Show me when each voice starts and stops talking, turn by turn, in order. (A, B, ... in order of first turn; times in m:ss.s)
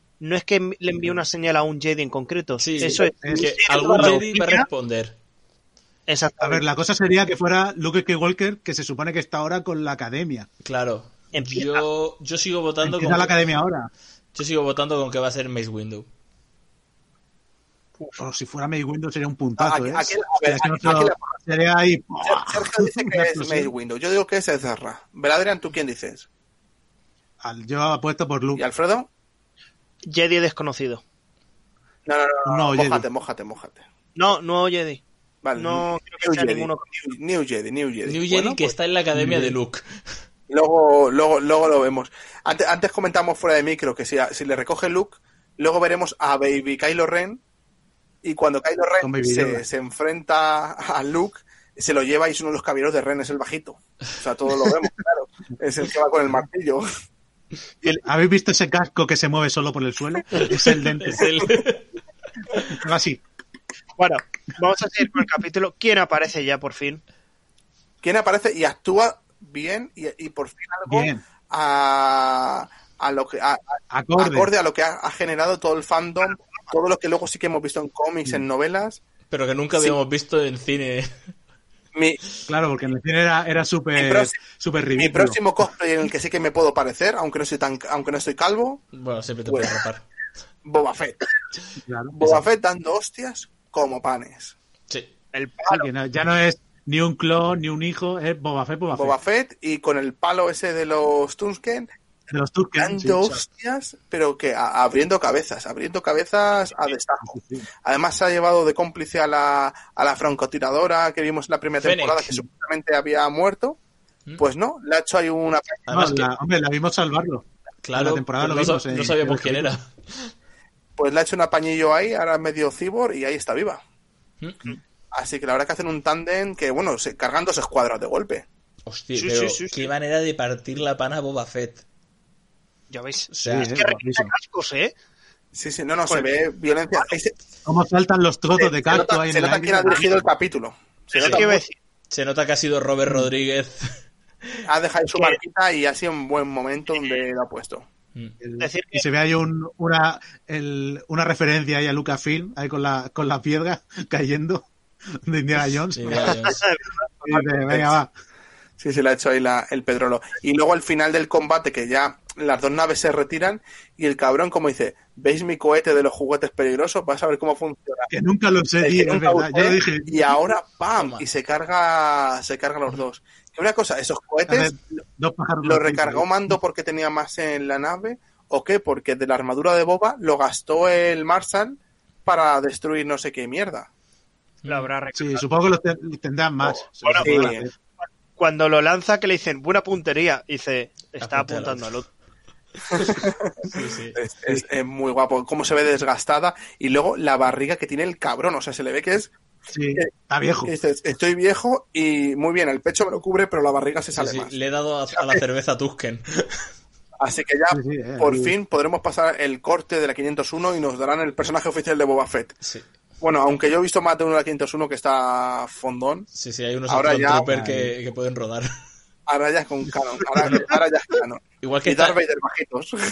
0:00.2-0:04.7 A
0:02.6-0:05.2 B
0:02.8-0:04.2 C
0:06.1-0:06.7 A
0:06.4-0:10.5 C
0:10.6-0:13.4 B
0:11.3-0:11.8 A
0:12.8-0:13.9 C
0:14.3-0:16.1 B
0:18.2-0:23.7 C
0:19.6-0:21.4 D
0:22.2-0:26.3 D
0:27.4-0:28.6 C
0:28.6-0:29.1 D
0:30.1-0:31.0 A
0:32.1-0:33.8 D
0:32.4-0:33.1 C
0:34.2-0:35.0 A
0:35.4-0:38.7 D
0:35.6-0:36.8 A
0:38.0-0:39.9 B
0:39.1-0:39.6 C
0:40.5-0:47.4 D
0:48.2-0:56.8 D
0:49.0-0:49.6 C
0:58.0-1:01.3 C
1:00.4-1:01.9 B
1:02.5-1:02.8 B
1:02.7-1:03.2 C
1:04.0-1:07.0 A
1:08.0-1:13.6 D
1:10.9-1:11.2 C
1:13.9-1:14.5 C
1:14.2-1:19.0 D
1:19.3-1:21.1 B
1:21.9-1:22.2 D
1:22.5-1:25.4 C
1:24.0-1:24.4 D
1:25.0-1:28.8 D
1:28.9-1:30.0 B
1:29.5-1:29.7 D
1:30.6-1:31.3 D
1:31.8-1:32.4 C
1:32.2-1:34.6 D
1:35.3-1:35.9 A
1:35.7-1:39.2 C
1:38.9-1:41.9 D
1:42.3-1:43.4 C
1:42.8-1:53.8 D
1:47.2-1:47.7 C
1:51.8-1:52.4 B
1:54.4-1:55.9 D
1:55.9-1:56.3 B
1:55.9-1:59.8 C
1:57.8-2:00.3 B
2:01.0-2:03.8 D
2:04.4-2:04.7 B
2:05.1-2:08.4 D
2:08.8-2:11.8 B
2:09.2-2:09.9 A
2:12.9-2:14.9 A
2:13.3-2:14.0 B
2:13.4-2:14.3 C
2:15.5-2:17.3 D
2:16.1-2:16.3 A
2:17.7-2:20.3 C
2:18.6-2:21.6 D
2:21.1-2:21.8 A
2:21.2-2:23.9 B
2:23.1-2:23.3 C
2:24.7-2:27.9 D
2:26.9-2:27.2 A
2:28.4-2:34.7 C
2:28.6-2:29.0 A
2:35.2-2:36.6 C
2:36.0-2:36.6 B
2:36.2-2:37.6 A
2:37.2-2:38.1 C
2:37.6-2:38.0 D
2:38.8-2:48.1 D
2:48.1-2:50.2 C
2:48.8-2:54.7 D
2:51.0-2:51.2 B
2:54.5-2:56.6 C
2:55.6-3:03.9 D
3:04.6-3:04.9 B
3:04.7-3:05.5 A
3:05.1-3:07.7 C
3:07.0-3:07.6 A
3:07.1-3:07.6 D
3:08.4-3:12.1 A
3:11.2-3:11.9 B
3:12.9-3:19.3 D
3:13.7-3:14.2 B
3:19.7-3:20.7 C
3:20.6-3:24.5 D
3:24.1-3:26.5 B
3:25.1-3:25.4 D
3:27.2-3:32.6 D
3:27.7-3:28.6 C
3:33.2-3:36.3 D
3:36.3-3:38.7 B
3:36.9-3:37.5 D
3:37.5-3:38.0 C
3:39.3-3:43.0 D
3:41.6-3:42.2 B